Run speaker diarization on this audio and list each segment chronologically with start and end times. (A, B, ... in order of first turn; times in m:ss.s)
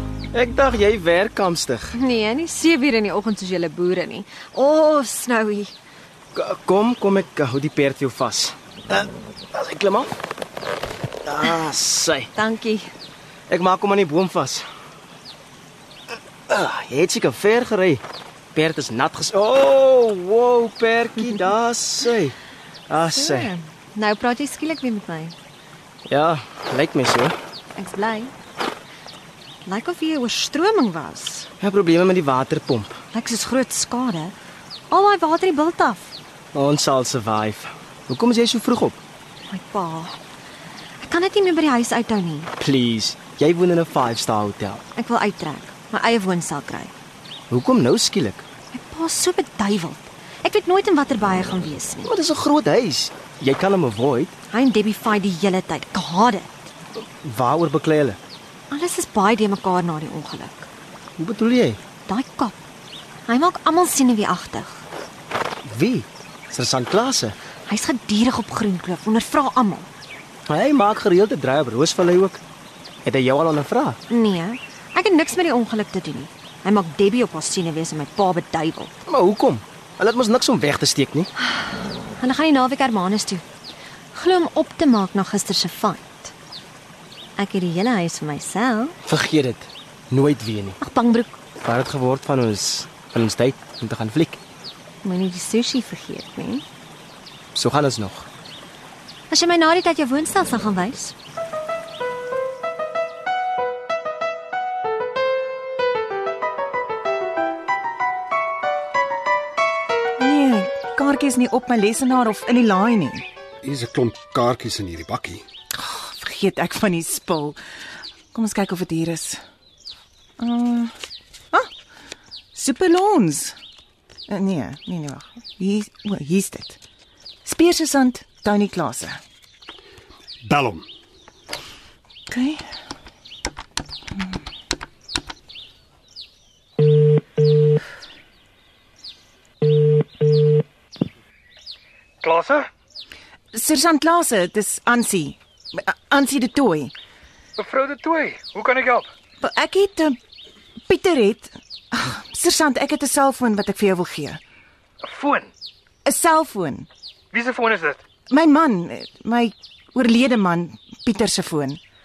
0:00.3-0:01.9 A
0:01.9-0:05.7 B
0:06.3-0:10.1 A
0:11.2-0:12.3 A
0:12.3-0:12.9 B
0:13.5-0:14.7 A
0:16.5-0:18.0 A
0:18.5-0:22.3 A
0:22.9-0:23.5 A
0:23.1-0:25.3 B
0:26.0-0:27.3 A
0:27.7-0:28.3 B
0:29.6-0:31.5 B
0:31.6-0:33.0 A
0:33.1-0:34.3 B
0:34.9-0:36.1 B
0:36.5-0:39.0 A
0:39.5-0:40.2 B
0:41.0-0:42.5 B
0:42.6-0:44.8 A
0:44.9-0:46.9 B
0:47.5-0:48.4 A
0:48.7-0:52.1 B
0:52.0-0:54.4 A
0:54.5-0:56.7 B
0:57.0-0:58.2 A
0:58.7-1:00.7 B
1:01.2-1:01.8 A
1:02.1-1:02.6 B
1:03.3-1:04.8 B
1:05.7-1:07.4 A
1:07.7-1:09.9 B
1:10.5-1:12.4 A
1:13.0-1:14.0 A
1:14.1-1:18.9 B
1:19.0-1:21.3 A
1:22.2-1:23.4 B
1:24.1-1:26.3 B
1:27.4-1:28.9 B
1:29.0-1:30.8 A
1:30.8-1:31.4 B
1:31.6-1:34.4 A
1:35.0-1:36.6 B
1:37.5-1:38.3 A
1:39.3-1:41.1 B
1:50.2-1:53.2 C
1:53.6-1:55.4 D
1:55.7-1:57.6 C
1:58.3-1:59.4 C
2:00.4-2:00.9 C
2:02.5-2:03.6 C
2:04.3-2:06.8 C
2:07.4-2:09.2 C
2:10.4-2:10.8 D
2:12.3-2:12.6 C
2:22.2-2:22.7 E
2:23.5-2:26.9 C
2:27.6-2:29.1 E
2:29.4-2:30.2 C
2:30.9-2:34.4 C
2:35.0-2:35.5 E
2:36.0-2:36.9 C
2:37.3-2:38.0 E
2:38.3-2:41.8 C